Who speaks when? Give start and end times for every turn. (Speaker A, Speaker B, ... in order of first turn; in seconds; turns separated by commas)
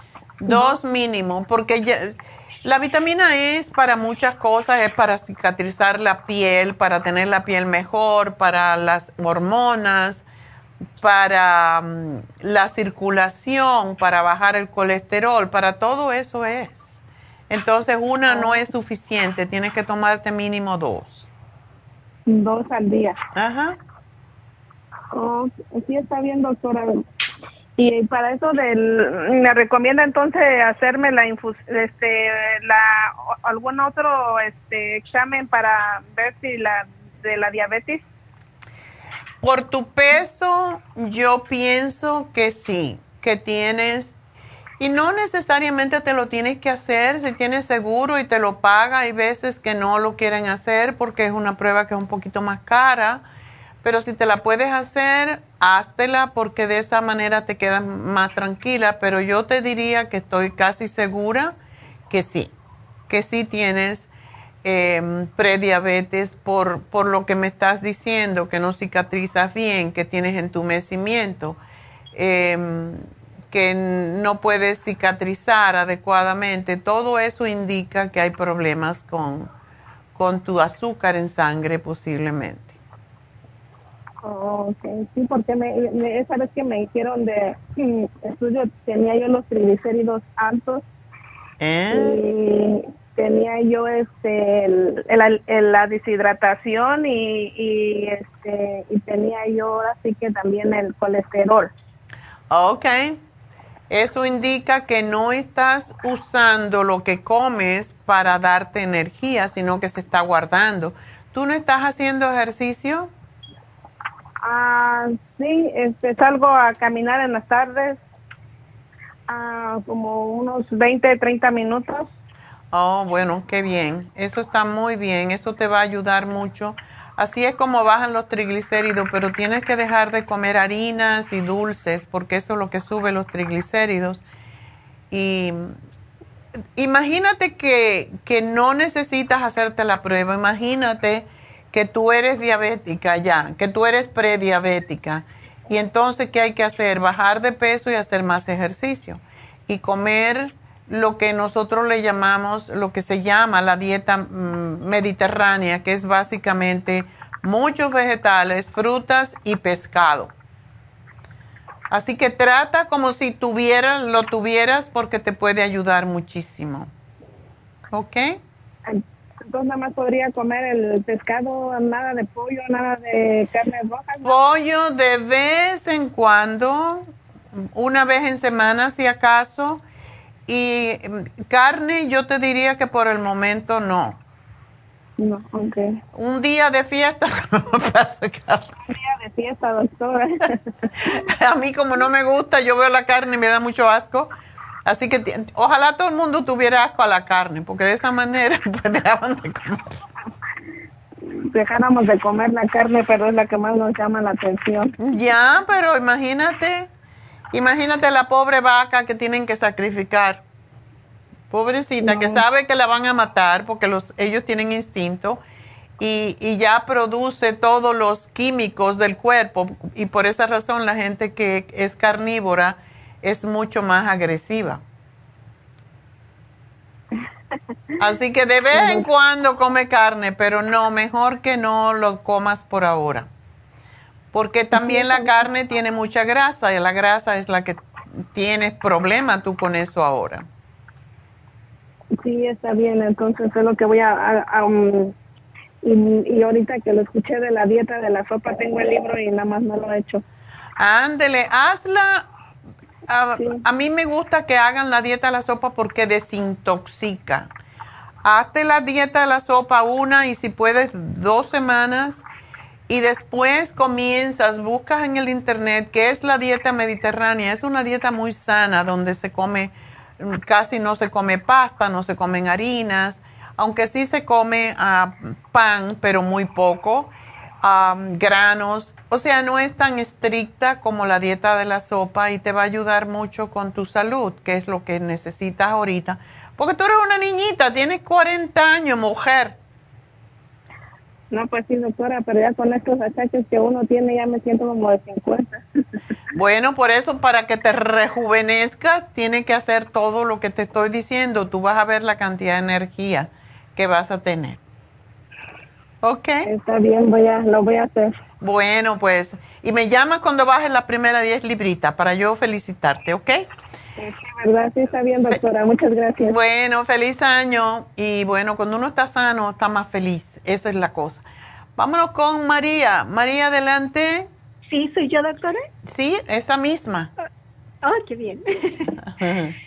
Speaker A: 0.4-10.2, Speaker A: 11.0-21.3, Speaker B: 18.3-18.6, Speaker B: 22.3-23.2, Speaker A: 23.4-23.8, Speaker B: 25.1-26.9, Speaker B: 27.8-38.0, Speaker A: 39.4-44.1, Speaker A: 44.8-53.2, Speaker A: 53.8-61.5, Speaker A: 62.1-62.5, Speaker A: 63.1-64.1, Speaker A: 64.6-71.6, Speaker A: 72.1-79.5, Speaker A: 80.2-82.8, Speaker B: 84.2-90.8, Speaker A: 91.6-92.2, Speaker B: 91.9-101.7, Speaker A: 102.5-103.2, Speaker A: 103.9-113.1, Speaker B: 114.4-118.0, Speaker B: 119.3-122.1, Speaker A: 122.7-134.2, Speaker A: 135.1-135.8, Speaker A: 136.8-160.3, Speaker A: 161.9-166.9, Speaker A: 167.9-168.4, Speaker B: 168.9-174.4, Speaker A: 174.2-179.8, Speaker A: 180.5-184.2, Speaker B: 185.2-186.0, Speaker A: 186.1-188.7, Speaker B: 188.9-190.6, Speaker A: 191.1-194.3, Speaker A: 194.8-200.0, Speaker B: 201.5-204.9, Speaker A: 205.0-206.9, Speaker A: 207.5-210.4, Speaker A: 211.5-215.4, Speaker B: 212.0-212.4, Speaker A: 216.0-224.8, Speaker A: 228.0-233.3, Speaker A: 234.3-237.8, Speaker A: 238.3-240.5, Speaker B: 242.2-245.1, Speaker B: 245.8-250.2, Speaker A: 250.8-252.3, Speaker A: 253.1-257.5, Speaker A: 258.2-262.2, Speaker A: 262.9-277.1, Speaker A: 277.6-289.6, Speaker B: 291.3-295.6, Speaker A: 296.4-304.6, Speaker A: 306.0-306.5, Speaker B: 306.4-308.1, Speaker A: 308.4-313.5, Speaker B: 314.0-316.4, Speaker A: 316.2-321.2, Speaker A: 321.8-324.3, Speaker C: 324.6-325.6, Speaker A: 325.9-327.1, Speaker C: 327.8-329.0, Speaker A: 329.2-329.6